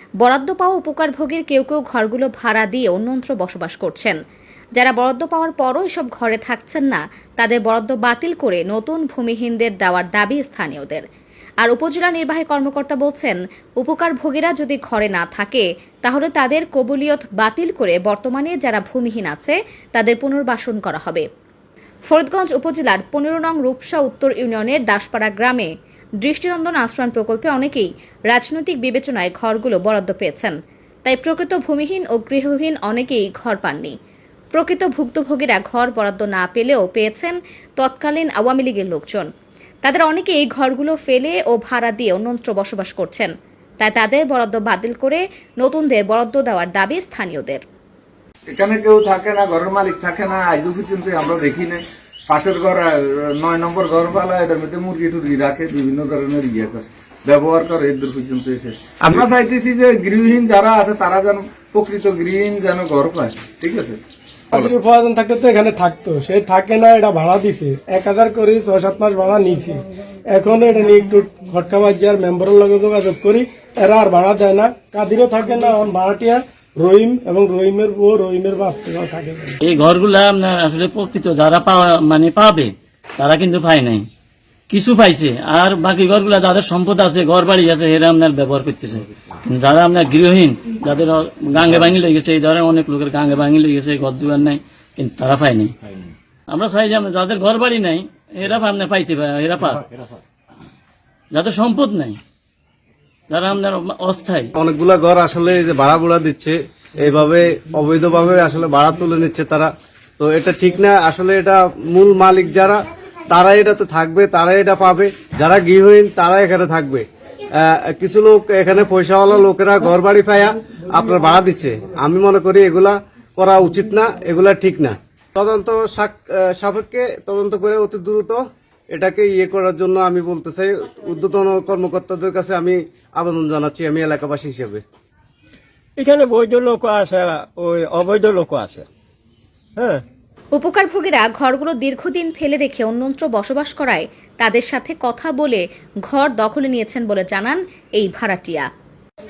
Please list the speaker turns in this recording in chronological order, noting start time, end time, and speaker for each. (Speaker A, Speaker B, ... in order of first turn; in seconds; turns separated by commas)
Speaker A: 0.2-4.2, Speaker A: 4.8-11.0, Speaker A: 11.6-21.3, Speaker A: 22.1-25.7, Speaker A: 26.2-30.5, Speaker A: 31.1-34.0, Speaker A: 34.5-39.3, Speaker A: 39.8-47.6, Speaker B: 48.5-64.0, Speaker C: 64.5-79.6, Speaker D: 79.6-84.1, Speaker D: 84.7-95.7, Speaker D: 96.5-99.8, Speaker D: 101.3-102.2, Speaker D: 103.3-104.5, Speaker E: 104.5-112.8, Speaker E: 113.3-117.0, Speaker E: 117.6-128.4, Speaker E: 128.9-134.8, Speaker E: 138.3-138.6, Speaker A: 140.6-148.7